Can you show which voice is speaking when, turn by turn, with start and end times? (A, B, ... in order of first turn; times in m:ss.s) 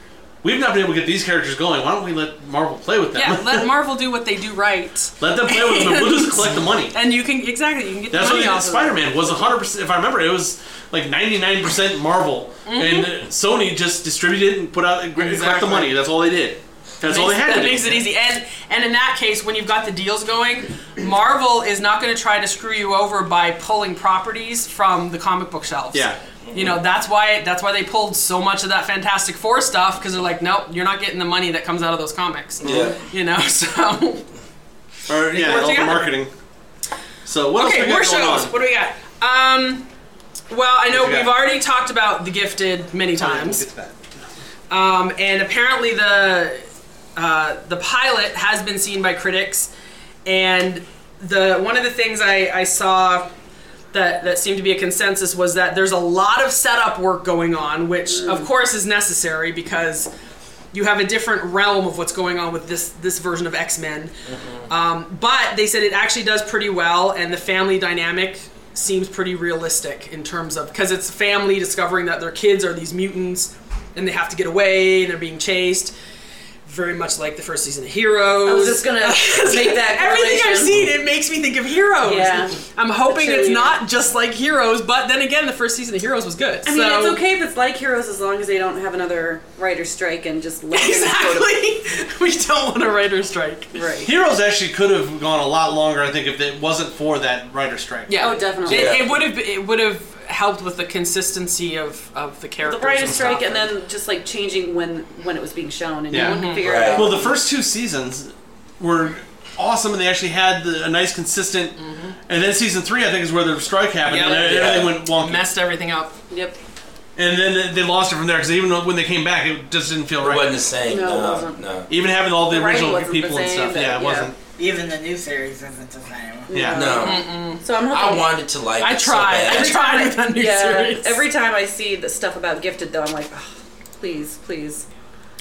0:00.4-0:03.7 A
0:03.1-0:09.4 B
0:05.2-0:07.0 A
0:08.1-0:18.0 A
0:12.7-0:13.1 B
0:15.2-0:16.0 B
0:17.0-0:34.2 B
0:25.9-0:26.2 A
0:26.5-0:26.8 C
0:32.6-0:33.0 C
0:32.6-0:33.0 A
0:35.1-0:36.3 A
0:35.3-0:36.1 B
0:37.2-0:38.5 A
0:37.6-0:39.9 B
0:40.5-0:43.6 B
0:40.9-0:41.3 A
0:43.2-0:44.0 A
0:44.7-0:46.6 B
0:47.2-0:49.7 B
0:50.3-0:53.3 B
0:53.9-1:00.1 B
0:58.1-0:58.5 D
1:00.7-1:04.1 B
1:04.3-1:04.7 C
1:04.7-1:15.9 B
1:16.7-1:27.2 B
1:18.4-1:20.8 D
1:22.0-1:23.8 D
1:26.6-1:31.6 D
1:30.7-1:33.9 B
1:33.7-1:34.1 D
1:34.0-1:38.1 A
1:38.1-1:43.7 B
1:38.1-1:39.2 D
1:38.7-1:39.0 C
1:42.6-1:47.4 D
1:46.1-1:51.8 A
1:46.1-1:46.6 B
1:46.6-1:47.1 C
1:51.8-1:52.2 B
1:52.3-1:55.5 A
1:54.1-1:56.2 B
1:54.3-1:55.0 C
1:56.3-1:56.6 D
1:57.2-2:00.5 A
2:00.2-2:01.9 C
2:00.8-2:01.6 D
2:01.9-2:04.4 A
2:02.4-2:04.3 D
2:04.6-2:06.6 E
2:06.5-2:08.4 D
2:06.5-2:06.9 A
2:06.7-2:07.3 C
2:06.9-2:07.6 B
2:07.9-2:09.8 C
2:08.8-2:11.2 B
2:09.5-2:14.9 D